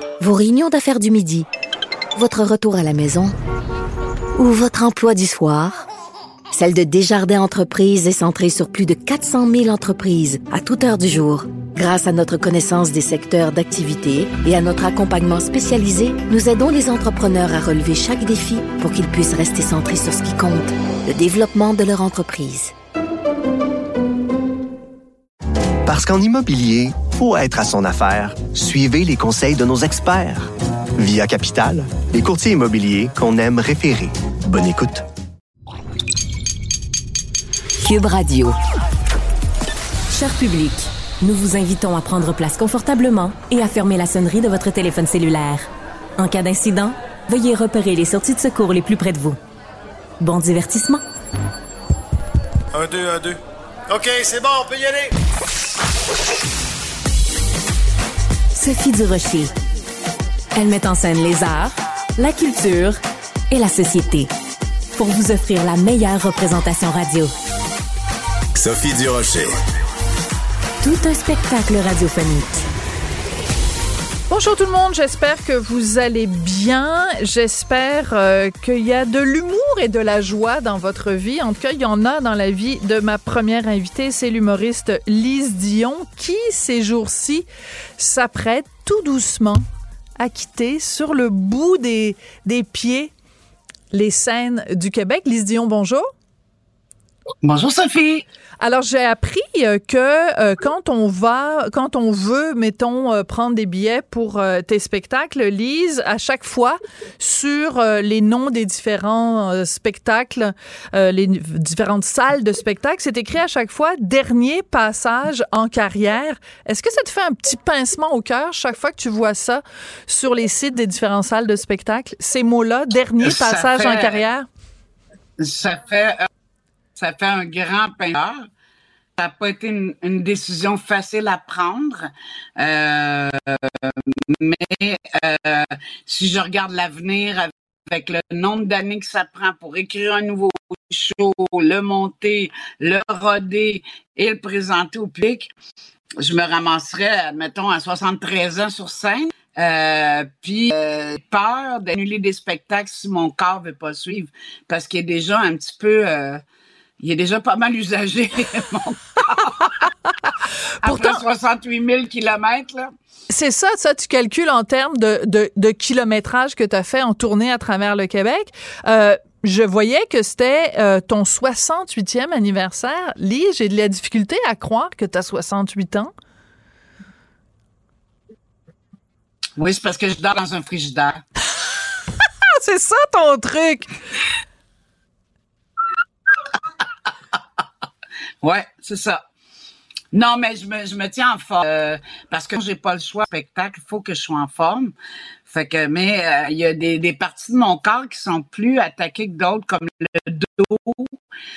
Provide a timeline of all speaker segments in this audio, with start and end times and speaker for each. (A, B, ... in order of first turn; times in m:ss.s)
0:00.2-0:01.5 A
0:02.2-0:03.3 A
0:04.4-0:05.8 A
0:06.5-0:22.7 A
0:25.8-0:35.0 B
0:37.8-0:38.5 C
0:40.1-0:49.4 C
0:50.2-0:51.0 C
0:52.7-0:55.1 D
0:58.5-0:59.5 C
1:00.5-1:04.3 C
1:04.9-1:07.3 C
1:08.5-1:09.6 D
1:10.8-1:12.6 C
1:14.3-1:27.5 E
1:28.0-1:29.6 E
1:30.2-1:33.1 E
1:33.9-1:36.0 E
1:37.4-1:38.2 F
1:38.6-2:04.4 E
2:03.2-2:04.2 F
2:05.4-2:06.3 F
2:07.0-2:08.5 F
2:09.2-2:25.5 F
2:26.2-2:36.4 F
2:37.0-2:39.7 F
2:40.8-2:42.9 F
2:40.8-2:41.2 E
2:43.3-2:56.1 E
2:59.6-3:01.2 F
3:02.6-3:03.9 E
3:08.4-3:09.2 F
3:10.1-3:14.9 F
3:15.5-3:21.2 F